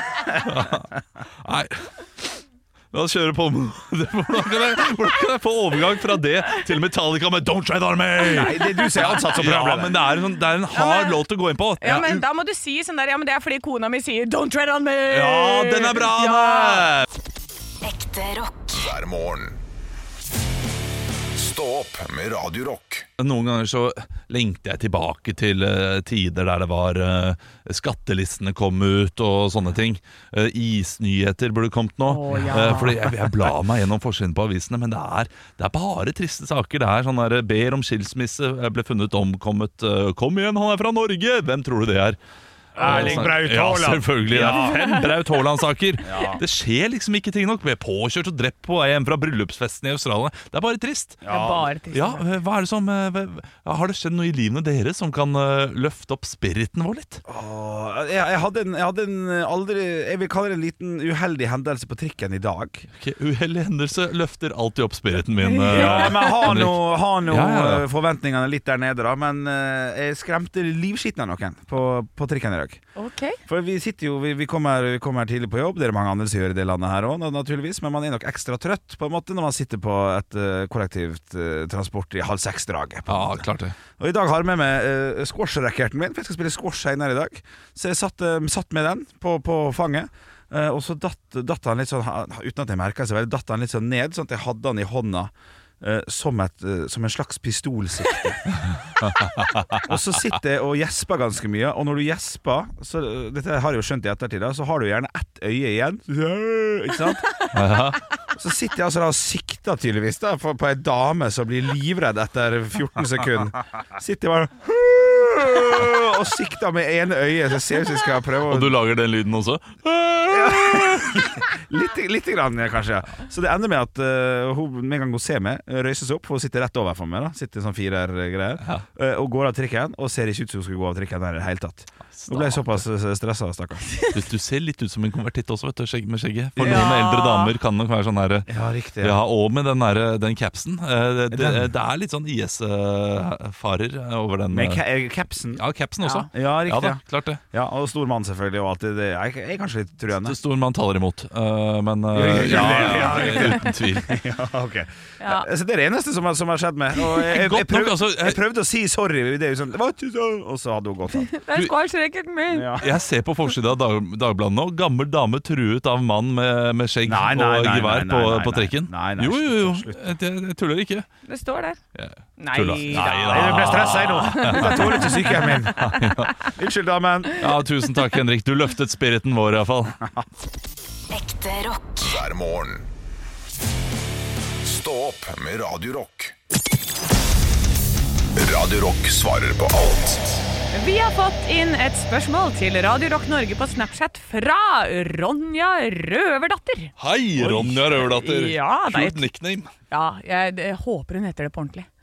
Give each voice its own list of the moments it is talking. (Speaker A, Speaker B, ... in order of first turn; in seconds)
Speaker A: 0.3-12.2, 15.1-17.1, 23.2-42.2, 42.8-51.2, 51.9-57.2, 63.0-67.8, 83.1-83.7, 99.0-99.8, 107.5-108.0, 118.5-121.3, 132.1-132.8, 134.1-144.8, 145.6-147.4, 150.2-154.2, 157.2-158.4, 162.8-171.1, 171.9-176.4, 177.3-180.0, 197.0-199.7
Speaker B: 8.3-9.9, 42.7-44.8, 46.0-46.4, 51.2-51.7, 57.2-62.9, 65.7-72.8, 73.5-98.5, 99.8-107.3, 108.3-118.8, 120.3-134.0, 136.6-136.9, 138.5-139.2, 141.3-141.7, 144.5-145.6, 146.3-147.0, 147.5-150.4, 152.1-161.3, 162.5-162.9, 167.0-170.1, 172.8-177.4
Speaker C: 10.7-11.2, 11.8-16.9, 32.0-33.1, 42.8-43.3, 44.3-45.3, 51.3-52.2, 65.4-66.5, 73.0-73.4, 136.6-137.5, 155.2-155.5, 161.1-162.9, 171.2-171.8, 172.4-176.0, 190.7-199.3, 199.9-201.9
Speaker D: 17.8-19.6, 21.3-23.1, 181.1-182.9, 184.6-186.3, 188.3-190.4